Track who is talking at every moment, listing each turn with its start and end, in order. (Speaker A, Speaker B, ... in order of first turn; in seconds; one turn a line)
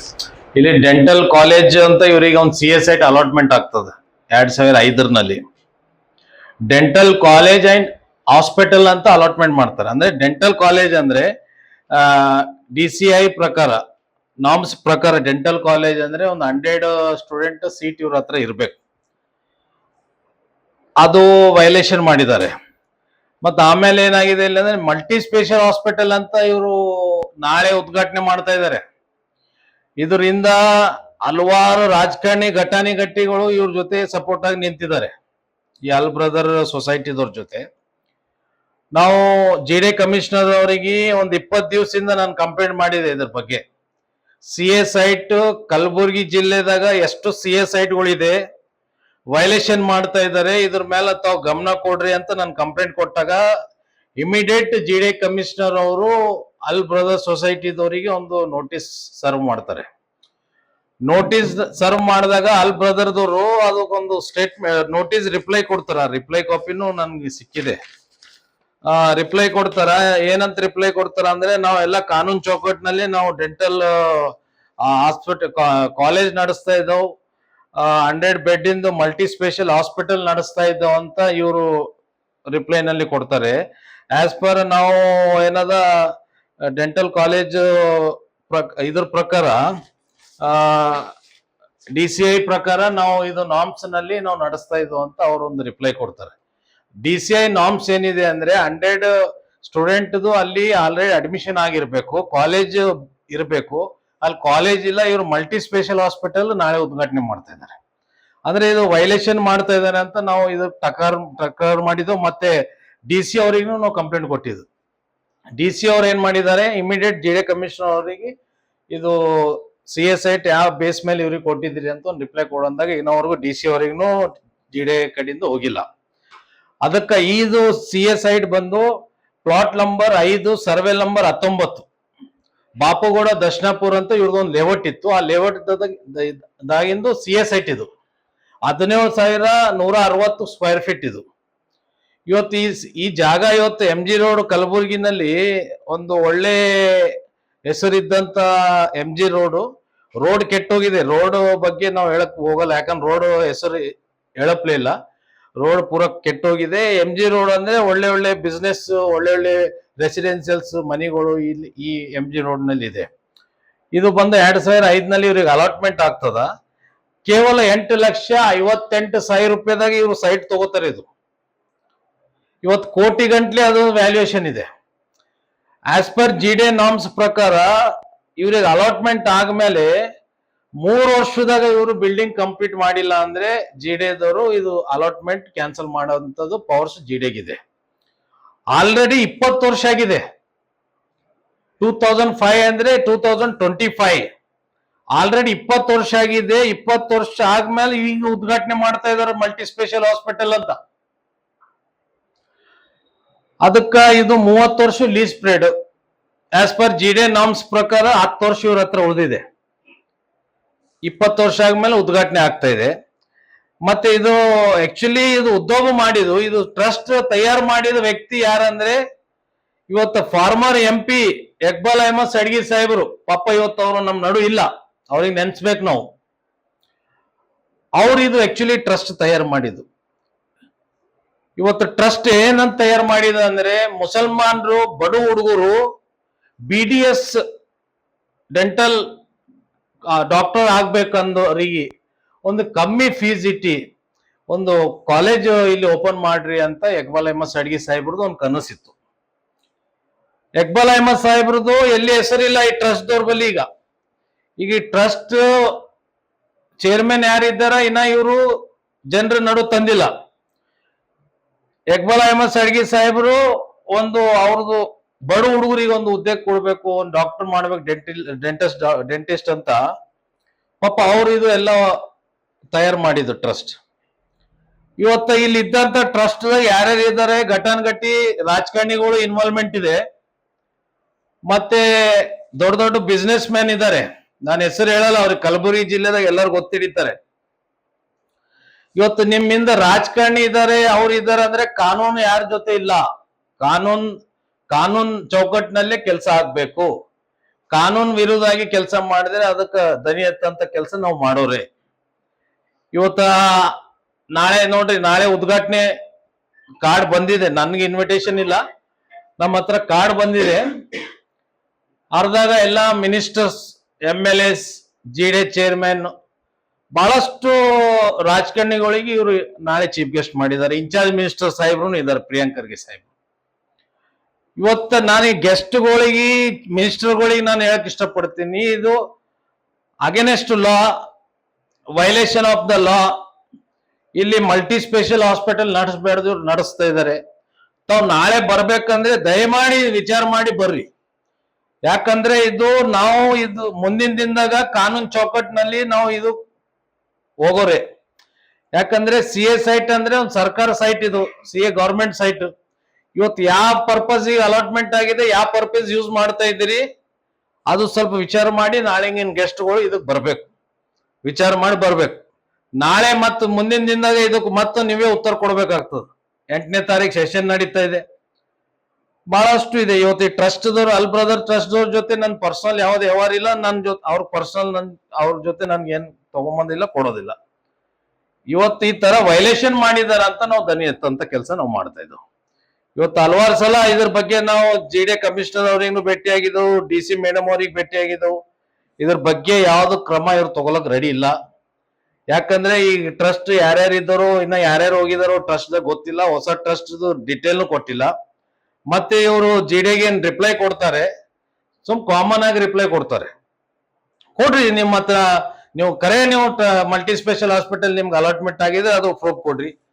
Speaker A: 0.6-5.4
Speaker A: 6.7-11.3
Speaker A: 11.9-13.8
Speaker A: 14.4-18.8
Speaker A: 21.0-22.5
Speaker A: 23.4-28.8
Speaker A: 30.0-30.6
Speaker A: 31.2-35.1
Speaker A: 35.9-37.7
Speaker A: 39.0-43.6
Speaker A: 44.5-48.4
Speaker A: 49.3-53.4
Speaker A: 54.2-59.9
Speaker A: 61.1-67.8
Speaker A: 68.9-77.0
Speaker A: 77.8-81.9
Speaker A: 82.5-83.6
Speaker A: 84.2-85.8
Speaker A: 86.7-89.6
Speaker A: 90.4-91.1
Speaker A: 91.9-96.3
Speaker A: 97.0-107.8
Speaker A: 108.5-112.5
Speaker A: 113.1-114.7
Speaker A: 115.6-118.3
Speaker A: 118.9-125.8
Speaker A: 126.8-128.9
Speaker A: 129.4-131.9
Speaker A: 132.8-137.9
Speaker A: 138.7-141.2
Speaker A: 142.3-145.4
Speaker A: 145.9-147.1
Speaker A: 147.7-149.6
Speaker A: 150.2-154.9
Speaker A: 155.6-163.1
Speaker A: 163.9-166.5
Speaker A: 167.3-171.1
Speaker A: 172.6-174.7
Speaker A: 175.9-177.7
Speaker A: 178.4-179.9
Speaker A: 180.8-187.6
Speaker A: 188.7-190.2
Speaker A: 191.8-194.3
Speaker A: 195.2-200.8
Speaker A: 203.6-205.7
Speaker A: 206.6-209.4
Speaker A: 211.1-212.9
Speaker A: 213.9-219.0
Speaker A: 219.9-226.0
Speaker A: 228.0-229.8
Speaker A: 231.6-235.8
Speaker A: 236.7-237.4
Speaker A: 238.6-239.0
Speaker A: 240.2-241.9
Speaker A: 242.5-243.8
Speaker A: 244.5-248.9
Speaker A: 250.6-253.7
Speaker A: 254.6-255.8
Speaker A: 256.8-258.4
Speaker A: 259.1-260.1
Speaker A: 261.9-263.4
Speaker A: 263.9-269.8
Speaker A: 270.8-271.8
Speaker A: 272.7-273.8
Speaker A: 275.0-280.0
Speaker A: 281.5-287.2
Speaker A: 289.0-293.0
Speaker A: 293.6-294.1
Speaker A: 294.7-296.9
Speaker A: 297.7-301.7
Speaker A: 302.9-303.8
Speaker A: 304.4-305.9
Speaker A: 306.8-308.6
Speaker A: 309.4-310.7
Speaker A: 312.1-316.1
Speaker A: 317.0-323.1
Speaker A: 324.6-329.0
Speaker A: 330.1-330.9
Speaker A: 332.0-333.1
Speaker A: 334.2-337.2
Speaker A: 337.9-340.9
Speaker A: 341.9-346.3
Speaker A: 347.4-347.8
Speaker A: 348.8-352.5
Speaker A: 353.2-356.8
Speaker A: 357.7-360.5
Speaker A: 361.2-362.2
Speaker A: 362.8-368.0
Speaker A: 369.3-377.4
Speaker A: 378.5-382.2
Speaker A: 383.0-388.4
Speaker A: 389.0-391.4
Speaker A: 392.3-398.1
Speaker A: 398.9-401.1
Speaker A: 401.8-403.3
Speaker A: 404.4-405.2
Speaker A: 405.7-409.7